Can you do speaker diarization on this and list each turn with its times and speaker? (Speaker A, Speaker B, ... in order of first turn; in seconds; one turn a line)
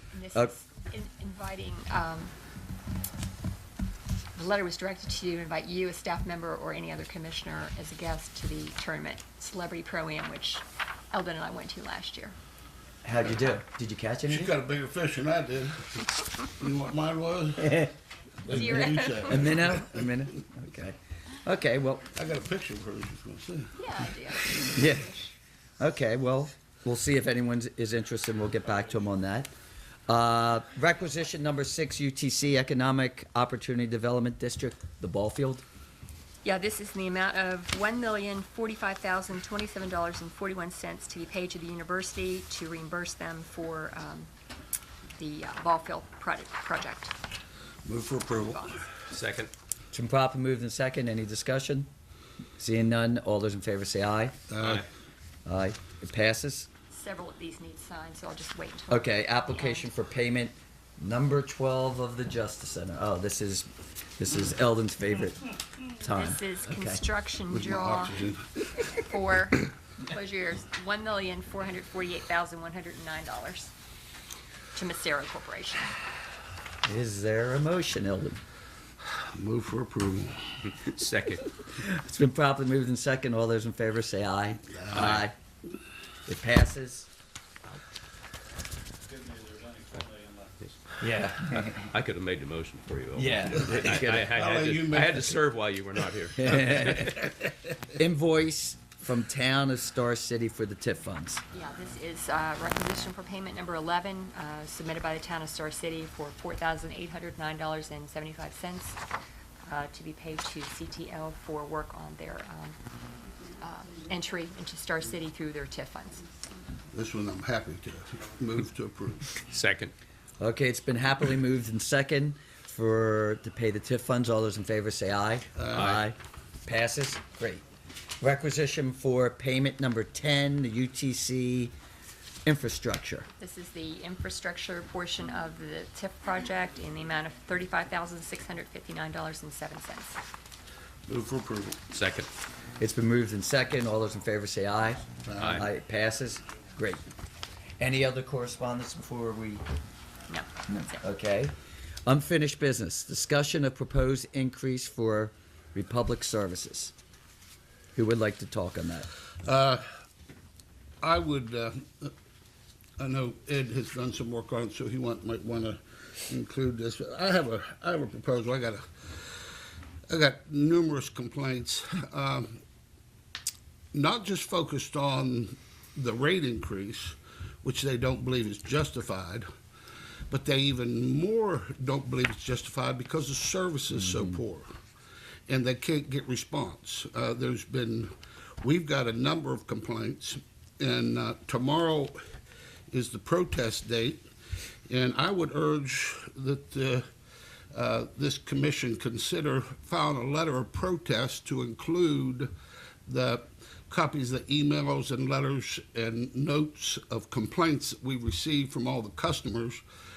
Speaker A: 0.1-2.3
Speaker A: 4.3-12.3
Speaker B: 13.0-14.5
Speaker C: 14.3-17.9
Speaker B: 17.6-17.9
Speaker C: 18.4-20.0
Speaker A: 18.5-19.6
Speaker B: 19.3-22.1
Speaker C: 22.1-23.8
Speaker A: 23.7-25.3
Speaker B: 24.7-25.1
Speaker B: 25.8-29.5
Speaker B: 30.1-35.6
Speaker A: 36.4-44.3
Speaker A: 45.1-47.1
Speaker C: 47.8-48.8
Speaker A: 48.4-48.7
Speaker D: 49.1-49.5
Speaker B: 49.9-51.9
Speaker B: 52.6-54.4
Speaker C: 54.5-54.8
Speaker D: 54.6-54.9
Speaker B: 55.5-56.7
Speaker A: 56.9-59.8
Speaker B: 58.9-67.0
Speaker A: 66.0-73.7
Speaker C: 67.5-68.5
Speaker A: 74.7-76.0
Speaker B: 76.8-78.4
Speaker C: 79.1-80.4
Speaker D: 80.7-81.4
Speaker B: 81.6-85.3
Speaker B: 86.3-87.1
Speaker B: 91.0-91.9
Speaker D: 91.6-97.2
Speaker B: 93.1-94.3
Speaker C: 93.7-95.4
Speaker B: 96.4-97.3
Speaker B: 97.9-101.4
Speaker A: 101.5-109.0
Speaker A: 109.6-112.8
Speaker A: 113.6-116.2
Speaker C: 116.9-119.3
Speaker D: 119.5-119.9
Speaker B: 120.4-127.6
Speaker C: 125.5-126.0
Speaker D: 125.7-126.0
Speaker B: 128.2-131.7
Speaker B: 132.4-133.3
Speaker A: 133.4-140.2
Speaker C: 141.1-141.8
Speaker D: 141.9-142.3
Speaker B: 142.8-147.0
Speaker C: 145.2-145.6
Speaker D: 145.4-145.7
Speaker B: 147.8-149.6
Speaker B: 150.7-151.5
Speaker B: 152.1-156.9
Speaker B: 157.9-159.1
Speaker C: 159.4-159.8
Speaker C: 161.0-162.1
Speaker C: 163.0-169.4
Speaker C: 170.1-172.6
Speaker C: 173.9-179.5
Speaker C: 180.3-184.7
Speaker C: 185.5-188.1
Speaker C: 188.6-192.2
Speaker C: 192.9-194.2
Speaker C: 194.9-197.1
Speaker C: 197.7-202.5
Speaker C: 203.1-209.8